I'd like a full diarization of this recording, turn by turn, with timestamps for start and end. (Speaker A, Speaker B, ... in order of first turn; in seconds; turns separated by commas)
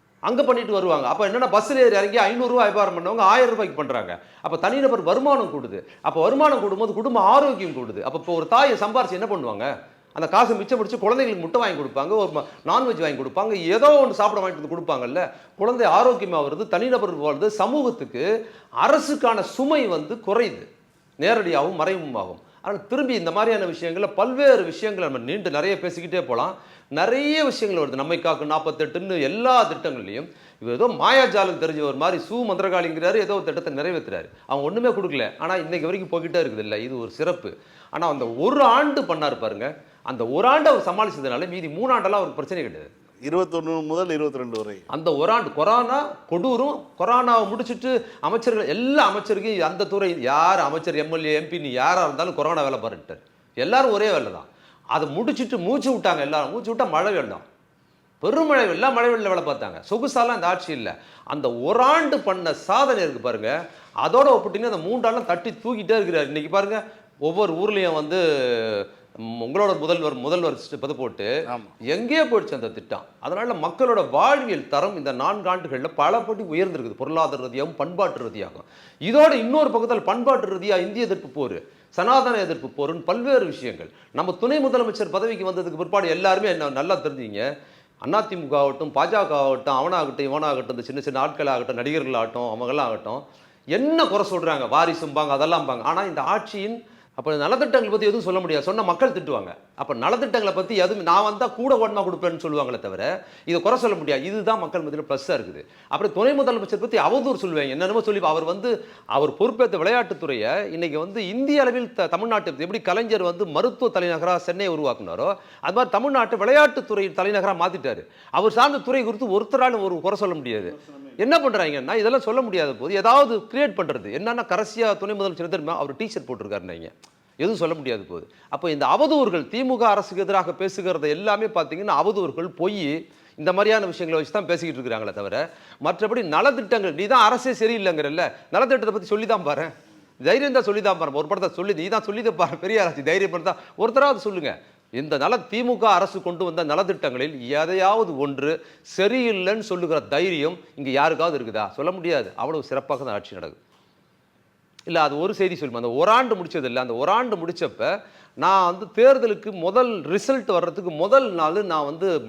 Speaker A: 0.2-18.2, Speaker A: 18.8-20.7, Speaker A: 21.2-42.9, Speaker B: 43.2-44.8, Speaker A: 44.9-57.4, Speaker A: 58.2-71.3, Speaker B: 71.5-71.7, Speaker A: 71.8-87.5, Speaker A: 88.0-93.2, Speaker A: 93.8-139.7, Speaker B: 120.8-121.1, Speaker A: 140.2-153.6, Speaker A: 154.9-162.1